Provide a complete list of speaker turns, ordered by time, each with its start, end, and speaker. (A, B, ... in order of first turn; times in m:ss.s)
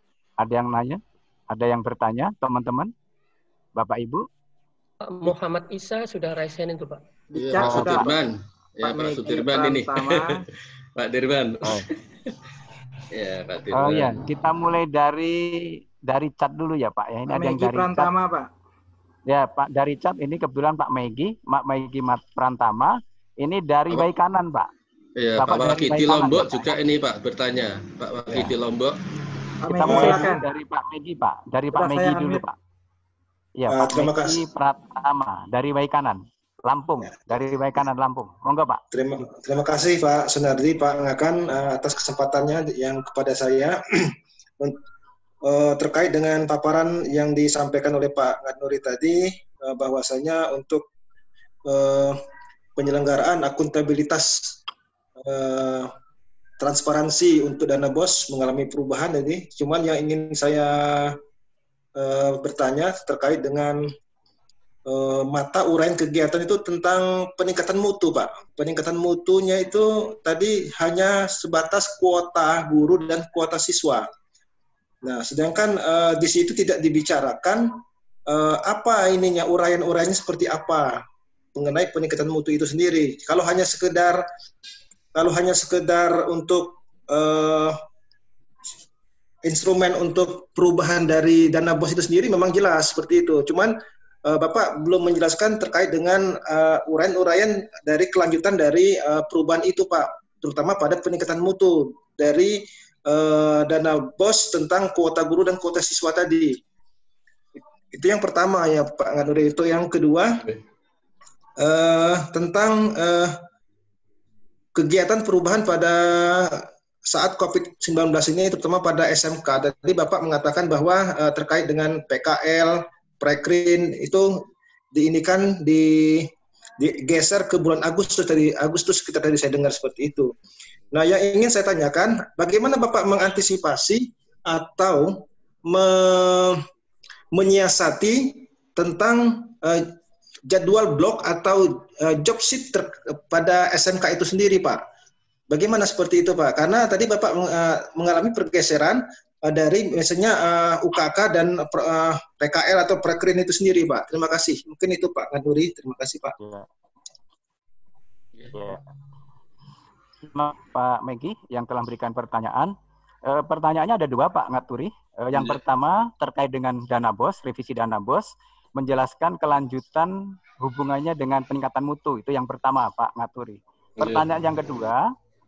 0:00.4-0:02.9 A
0:03.8-0:04.3 A
0:05.0-0:07.0 B
0:07.3-0:08.1 C
0:07.3-0:10.3 D
0:07.6-0:08.1 A
0:08.8-0:10.4 C
0:11.0-0:12.4 D
0:13.1-0:14.2 D
0:13.7-0:18.1 A
0:17.3-0:18.5 C
0:19.3-0:24.7 A
0:25.2-0:29.0 D
0:25.4-0:26.8 A
0:29.6-0:30.4 C
0:29.8-0:32.6 A
0:29.8-0:30.2 E
0:31.7-0:32.4 C
0:33.6-0:38.8 A
0:33.7-0:34.4 E
0:38.9-0:44.8 E
0:45.4-0:50.9 E
0:51.6-0:52.2 E
0:52.8-0:54.6 E
0:55.2-0:55.9 E
0:56.6-1:01.2 E
1:02.0-1:03.9 E
1:04.9-1:14.1 E
1:15.0-1:21.0 E
1:21.6-1:24.3 E
1:25.1-1:27.8 E
1:29.4-1:46.6 E
1:47.6-1:50.5 E
1:51.6-1:53.4 E
1:54.8-2:10.3 E
2:10.9-2:16.6 E
2:17.3-2:20.0 E
2:20.5-2:24.8 E
2:25.5-2:36.4 E
2:36.4-2:36.7 A
2:38.5-2:38.8 A
2:40.2-2:42.7 A
2:43.3-2:55.0 A
2:45.3-2:45.6 D
2:54.0-2:54.3 D